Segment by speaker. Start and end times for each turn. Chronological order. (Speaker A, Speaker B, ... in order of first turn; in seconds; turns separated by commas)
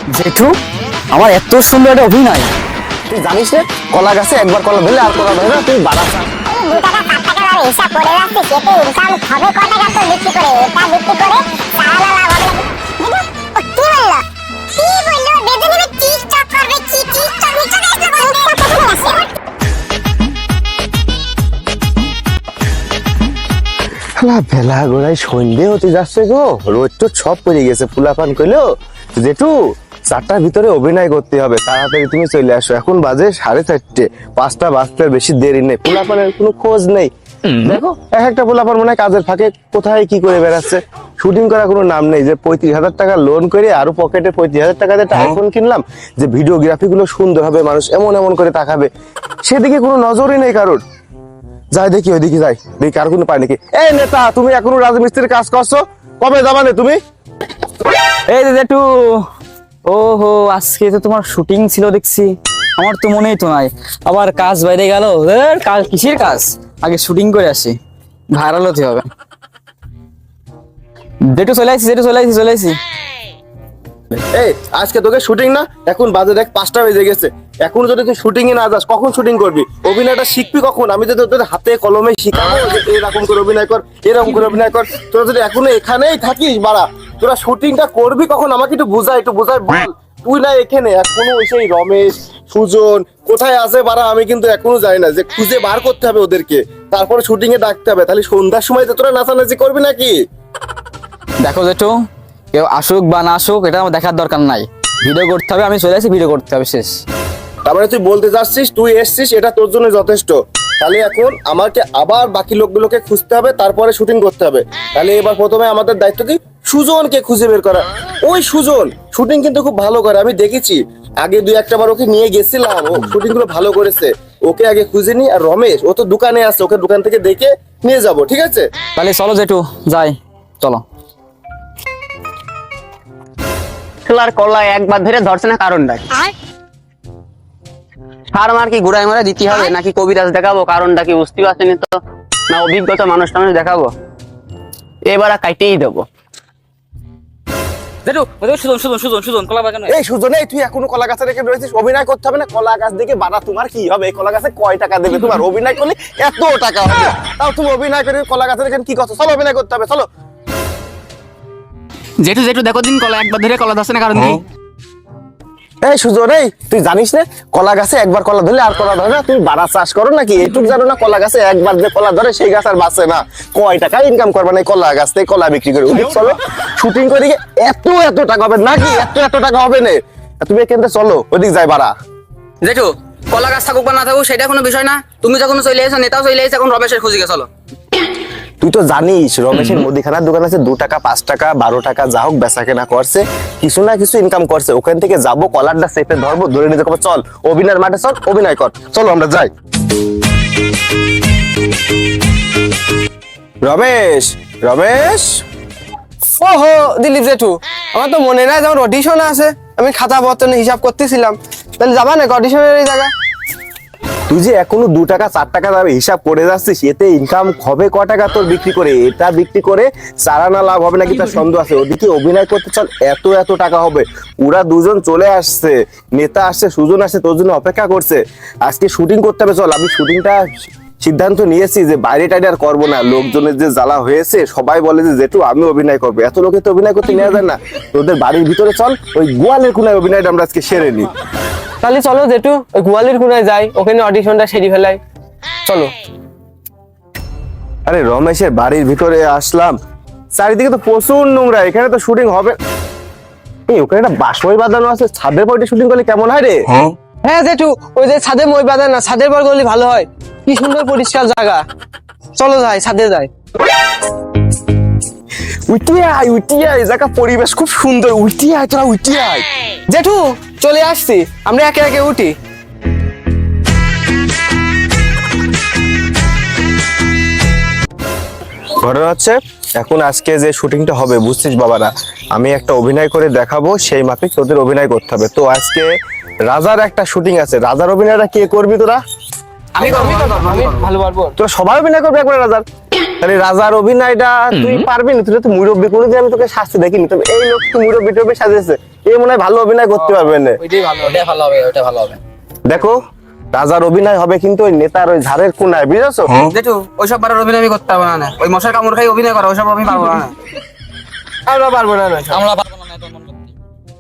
Speaker A: 0.1-0.5, Speaker A: 1.1-2.5, Speaker B: 3.1-6.3, Speaker C: 6.5-19.3, Speaker B: 24.2-29.6, Speaker B: 30.1-48.9, Speaker B: 49.5-50.8, Speaker B: 51.7-57.0, Speaker A: 58.3-59.2, Speaker A: 59.9-67.8, Speaker A: 68.3-69.1, Speaker A: 71.3-72.8, Speaker B: 74.3-100.2, Speaker A: 101.4-102.0, Speaker A: 102.5-107.0, Speaker B: 107.7-128.7, Speaker A: 129.0-130.8, Speaker D: 134.1-136.3, Speaker D: 138.3-141.9, Speaker D: 142.5-143.9, Speaker D: 145.1-146.1, Speaker A: 148.1-149.9, Speaker B: 149.9-160.1, Speaker D: 162.2-164.4, Speaker B: 165.8-181.9, Speaker D: 182.6-187.5, Speaker B: 188.6-199.5, Speaker B: 203.6-205.4, Speaker E: 206.4-213.1, Speaker B: 214.3-230.4, Speaker B: 231.0-241.1, Speaker E: 241.8-245.0, Speaker E: 245.7-245.9, Speaker B: 247.9-249.8, Speaker B: 250.3-252.6, Speaker B: 253.7-256.6, Speaker E: 257.2-261.6, Speaker E: 262.4-263.3, Speaker B: 265.7-269.5, Speaker E: 269.9-272.4, Speaker B: 278.8-285.9, Speaker B: 286.4-289.0, Speaker D: 289.8-290.9, Speaker E: 289.8-291.4, Speaker B: 291.4-292.6, Speaker B: 293.2-300.6, Speaker E: 299.9-301.3, Speaker A: 301.1-302.2, Speaker B: 302.6-303.0, Speaker B: 303.5-306.4, Speaker D: 306.5-310.3, Speaker E: 311.5-312.4, Speaker A: 312.3-313.4